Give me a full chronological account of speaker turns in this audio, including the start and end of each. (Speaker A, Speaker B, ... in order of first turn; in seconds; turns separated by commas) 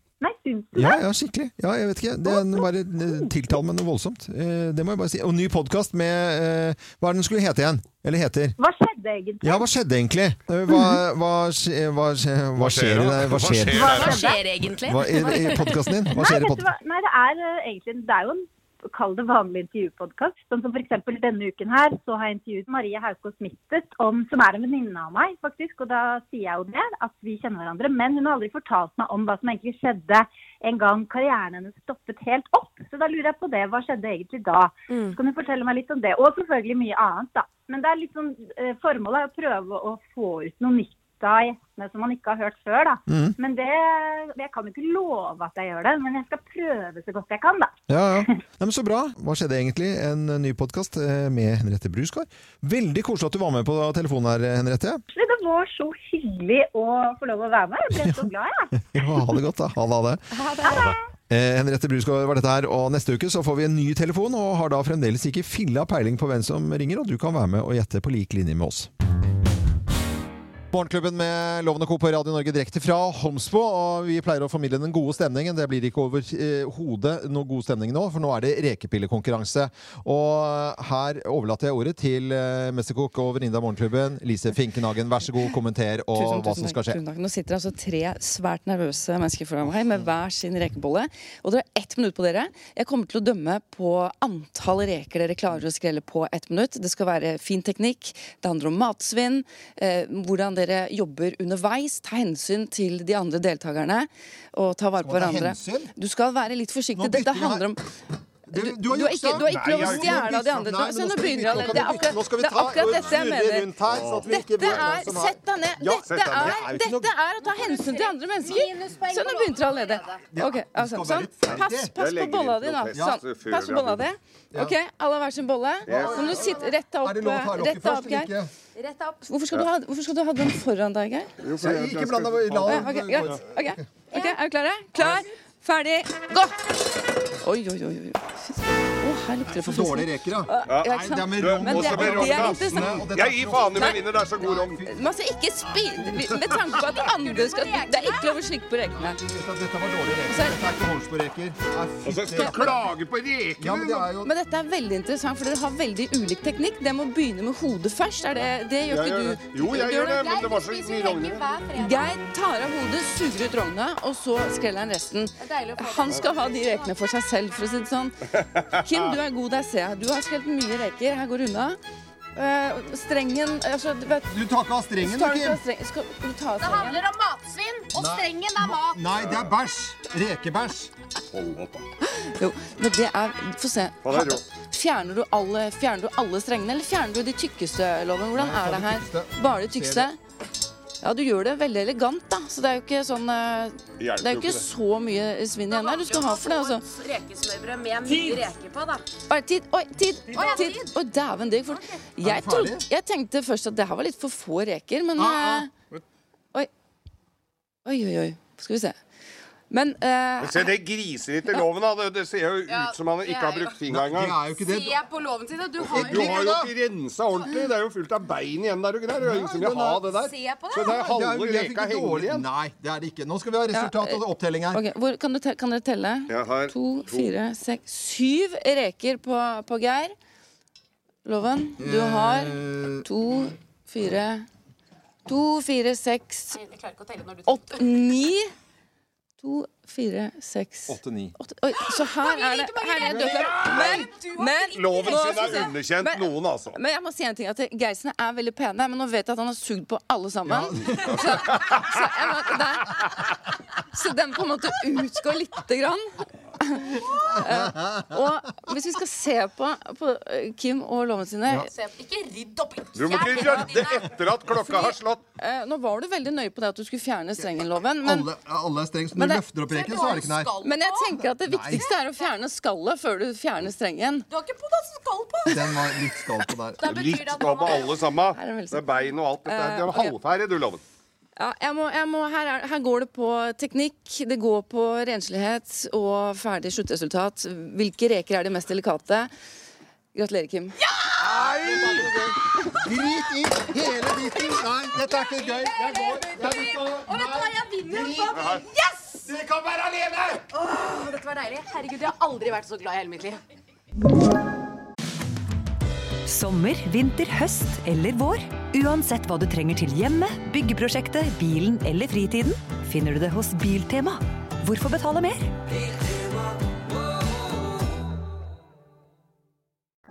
Speaker A: 0.2-1.0, Speaker B: 0.8-8.6, Speaker A: 2.3-3.2, Speaker A: 8.6-9.7, Speaker B: 9.4-14.2, Speaker C: 12.6-14.3, Speaker D: 13.8-16.1, Speaker A: 13.8-14.4, Speaker B: 14.7-16.7, Speaker A: 16.2-47.7, Speaker D: 34.9-35.2, Speaker B: 43.1-43.4, Speaker B: 47.9-55.0, Speaker A: 55.1-58.7, Speaker B: 58.0-58.2, Speaker B: 58.9-60.2, Speaker D: 60.3-60.9, Speaker A: 60.6-61.0, Speaker B: 61.3-68.9, Speaker B: 70.7-87.0, Speaker E: 86.1-107.8, Speaker B: 105.0-105.9, Speaker B: 107.0-107.7, Speaker B: 108.5-117.1, Speaker E: 108.5-128.3, Speaker C: 109.4-110.3, Speaker C: 113.9-115.0, Speaker C: 115.9-116.5, Speaker D: 117.5-120.0, Speaker B: 120.3-121.9, Speaker C: 121.5-124.1, Speaker B: 122.9-123.2, Speaker C: 125.9-126.3, Speaker B: 125.9-126.4, Speaker B: 127.0-128.5, Speaker D: 128.8-129.2, Speaker E: 129.2-131.3, Speaker C: 131.4-133.4, Speaker B: 131.6-133.8, Speaker E: 132.7-136.6, Speaker E: 137.4-143.1, Speaker B: 139.5-143.9, Speaker C: 140.7-144.9, Speaker E: 143.6-144.0, Speaker E: 144.8-149.2, Speaker D: 147.0-148.4, Speaker B: 149.0-152.8, Speaker E: 150.3-150.6, Speaker C: 152.1-154.1, Speaker E: 152.3-152.8, Speaker B: 153.6-154.3, Speaker E: 154.2-160.3, Speaker C: 158.9-161.6, Speaker D: 160.1-162.1, Speaker E: 161.7-168.2, Speaker D: 165.4-166.9, Speaker E: 168.7-171.8, Speaker E: 172.3-174.3, Speaker B: 174.3-175.6, Speaker E: 175.0-177.0, Speaker D: 176.6-179.0, Speaker B: 177.9-180.9, Speaker C: 179.2-179.5, Speaker C: 181.3-181.8, Speaker E: 182.0-190.2, Speaker C: 184.0-184.4, Speaker B: 188.3-190.1, Speaker E: 191.0-196.9, Speaker C: 194.0-194.7, Speaker D: 195.7-199.1, Speaker E: 199.3-205.7, Speaker D: 200.3-200.9, Speaker B: 202.2-202.8, Speaker B: 205.2-205.7, Speaker E: 207.8-208.9, Speaker E: 209.7-210.7, Speaker C: 210.4-214.4, Speaker D: 212.7-213.7, Speaker B: 213.9-215.0, Speaker D: 214.7-216.4, Speaker C: 215.8-222.5, Speaker B: 215.9-216.7, Speaker B: 219.2-224.8, Speaker D: 220.3-221.0, Speaker E: 223.7-230.1, Speaker C: 226.3-227.3, Speaker E: 231.2-234.5, Speaker B: 231.8-233.0, Speaker E: 235.3-236.7, Speaker E: 237.4-238.5, Speaker E: 239.4-253.1, Speaker B: 240.9-241.3, Speaker D: 242.3-243.3, Speaker D: 244.2-244.5, Speaker C: 244.7-246.8, Speaker B: 250.5-251.2, Speaker C: 251.1-251.8, Speaker E: 253.9-261.7, Speaker B: 257.4-257.7, Speaker D: 261.8-263.9, Speaker C: 262.9-265.2, Speaker E: 264.6-268.3, Speaker B: 268.0-270.6, Speaker E: 269.1-269.5, Speaker D: 269.7-271.2, Speaker E: 270.5-274.3, Speaker B: 271.4-271.9, Speaker D: 274.3-275.6, Speaker B: 275.5-277.1, Speaker D: 276.8-277.9, Speaker C: 276.8-280.8, Speaker E: 278.3-278.9, Speaker E: 279.4-280.1, Speaker E: 281.4-289.3, Speaker E: 290.1-290.8, Speaker B: 291.2-298.5, Speaker C: 291.3-292.0, Speaker D: 295.4-299.2, Speaker C: 298.3-298.6, Speaker B: 299.2-300.5, Speaker D: 300.6-303.4, Speaker F: 306.2-315.6